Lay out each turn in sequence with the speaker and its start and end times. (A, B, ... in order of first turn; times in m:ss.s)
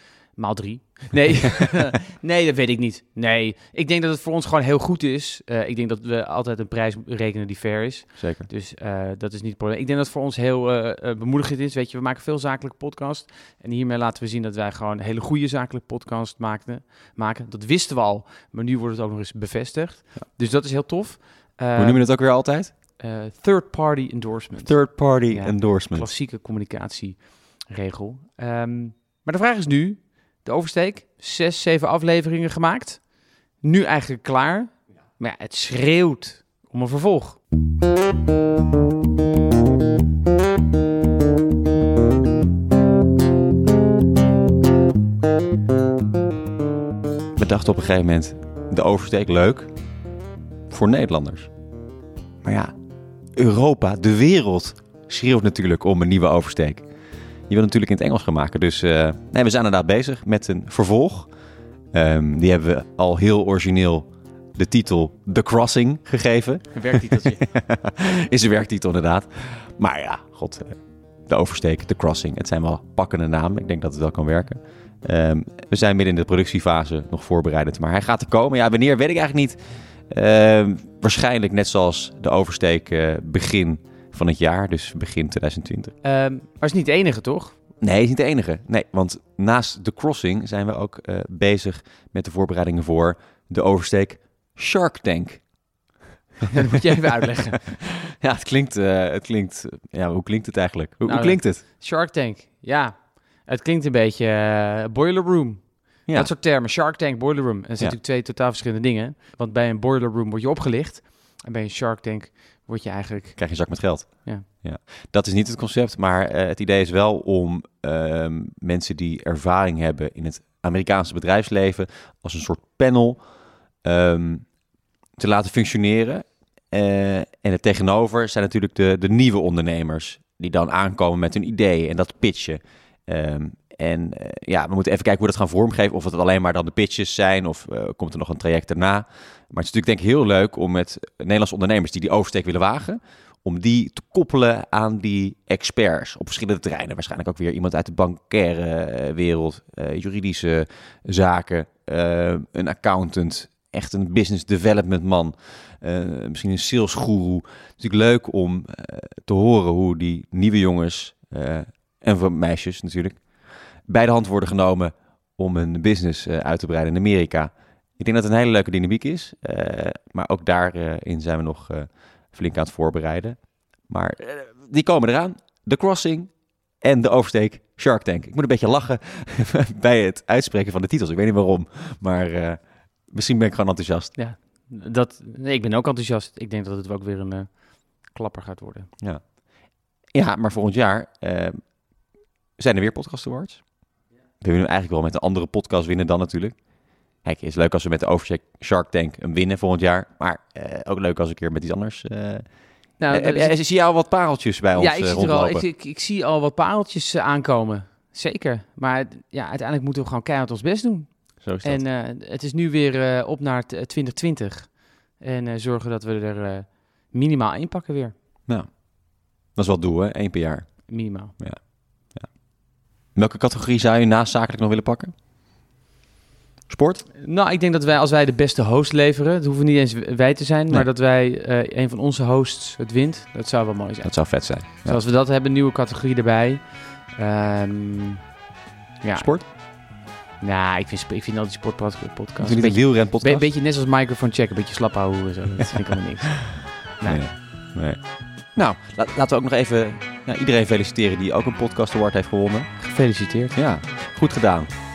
0:00.4-0:22.2 A
0:08.2-0:08.5 B
0:21.8-0:22.7 B
0:23.0-0:37.4 A
0:24.6-0:26.1 B
0:47.4-0:49.7 B
0:50.7-0:51.5 B
0:52.4-0:52.7 B
0:53.4-0:56.9 B
0:57.5-1:01.3 B
1:01.9-1:19.6 B
1:06.7-1:07.4 A
1:20.1-1:25.9 B
1:26.0-1:27.6 A
1:27.8-1:35.6 B
1:36.5-1:37.8 A
1:38.1-1:41.6 B
1:41.0-1:54.5 A
1:53.4-2:03.3 B
2:03.8-2:04.6 B
2:05.2-2:43.3 B
2:43.9-3:04.2 B
3:04.2-3:08.9 A
3:09.0-3:09.4 B
3:10.1-3:12.0 B
3:12.6-3:13.7 B
3:14.4-3:25.7 B
3:23.0-3:23.6 A
3:24.8-3:38.1 A
3:31.4-3:31.8 B
3:38.5-3:42.3 B
3:40.9-3:41.4 A
3:43.1-3:45.1 B
3:46.7-3:47.1 B
3:47.2-3:58.3 A
3:54.0-3:55.0 B
3:59.0-3:59.6 A
3:59.1-3:59.4 B
4:00.4-4:07.2 A
4:02.4-4:03.5 B
4:07.0-4:12.8 B
4:12.8-4:13.6 A
4:13.5-4:14.7 B